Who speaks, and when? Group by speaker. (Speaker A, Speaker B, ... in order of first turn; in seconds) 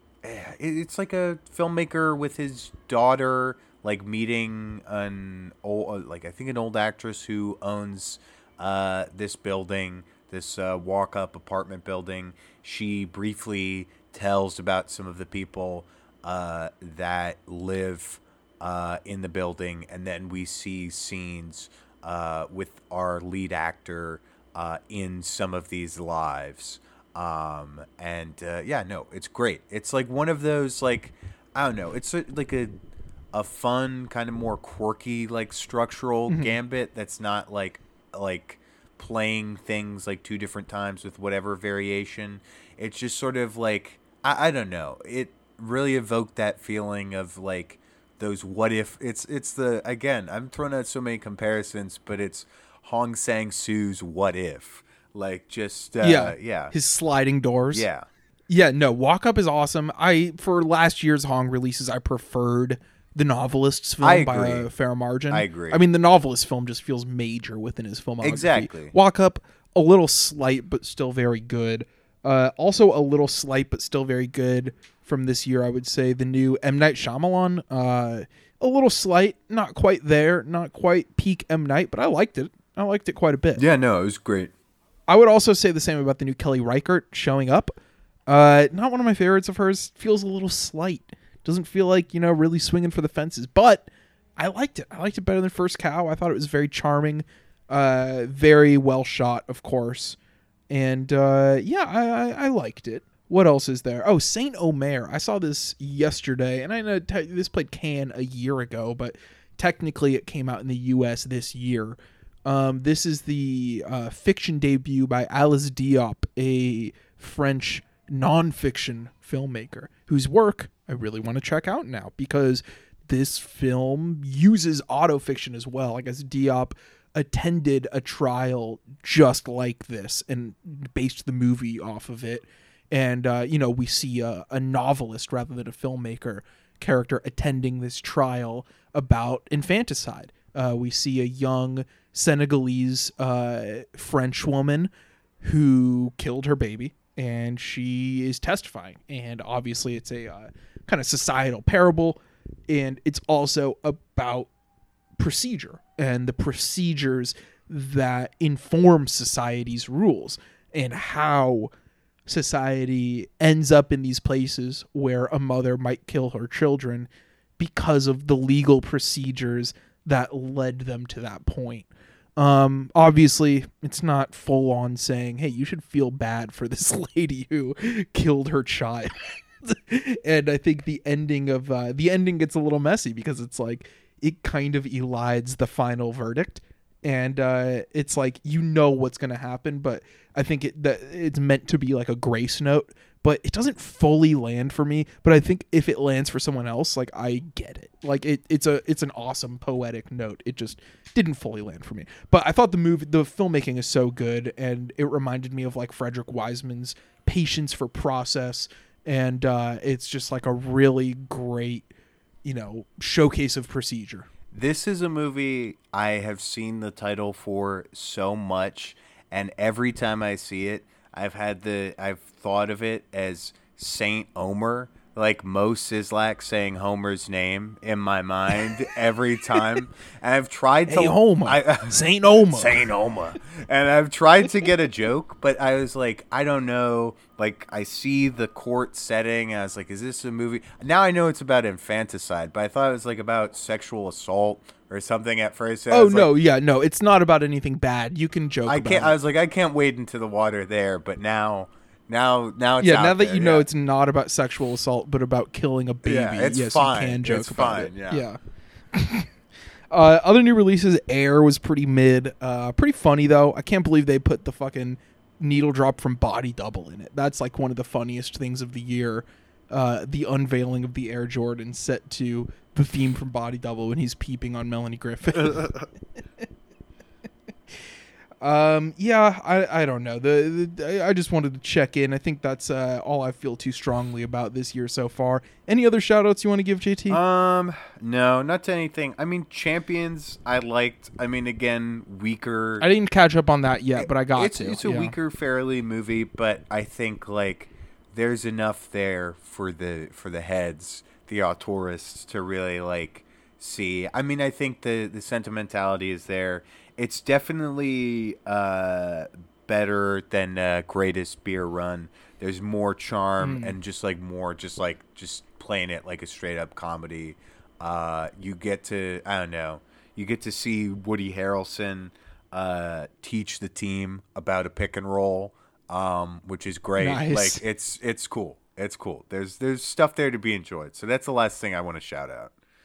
Speaker A: 0.2-32.8, 33.3-56.7, 57.7-58.1, 64.0-64.7, 65.3-65.8, 68.2-69.0, 83.6-84.5, 214.5-246.3, 248.7-253.7, 256.0-258.3, 287.1-292.9, 294.0-332.5
Speaker B: 36.3-36.5, 56.0-57.9, 58.5-83.7, 85.1-87.8, 88.3-100.2, 100.7-144.9, 145.4-154.5, 155.2-161.7, 162.3-211.9, 212.4-214.3, 230.9-232.9, 245.9-249.2, 252.8-258.4, 258.9-259.3, 259.9-275.9, 278.4-287.2, 292.8-295.1, 313.4-313.8, 327.0-327.6